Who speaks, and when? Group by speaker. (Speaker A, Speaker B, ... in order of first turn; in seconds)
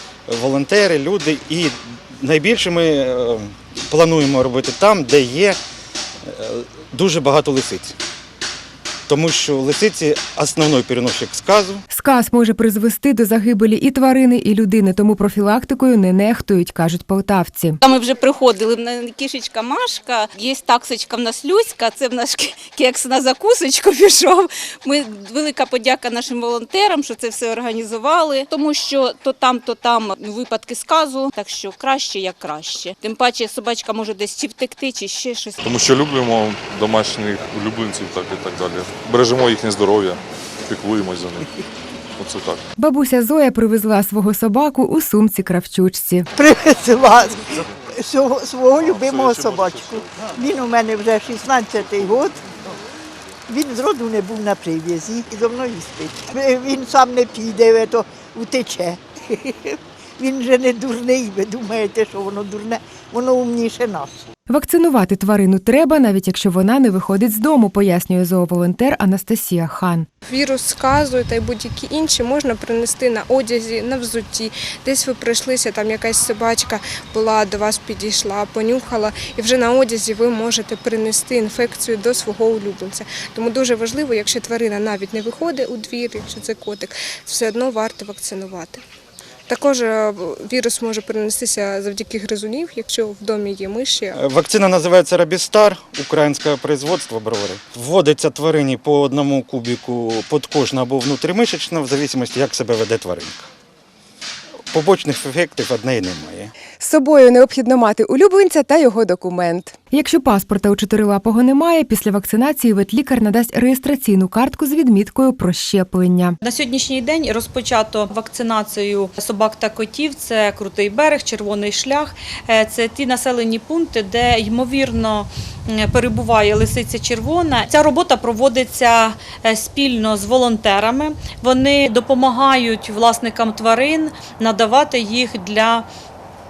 Speaker A: 0.3-5.6, 6.2-8.0, 9.1-11.8, 94.1-103.5, 104.7-106.5
Speaker B: 11.9-17.8, 42.8-46.3, 64.5-70.0, 106.8-116.4
Speaker C: 17.8-35.6
Speaker D: 35.6-41.5, 42.2-42.6, 48.8-50.2
Speaker E: 46.3-52.5, 53.5-64.2
Speaker F: 70.3-88.8, 89.5-94.2
Speaker G: 116.4-135.9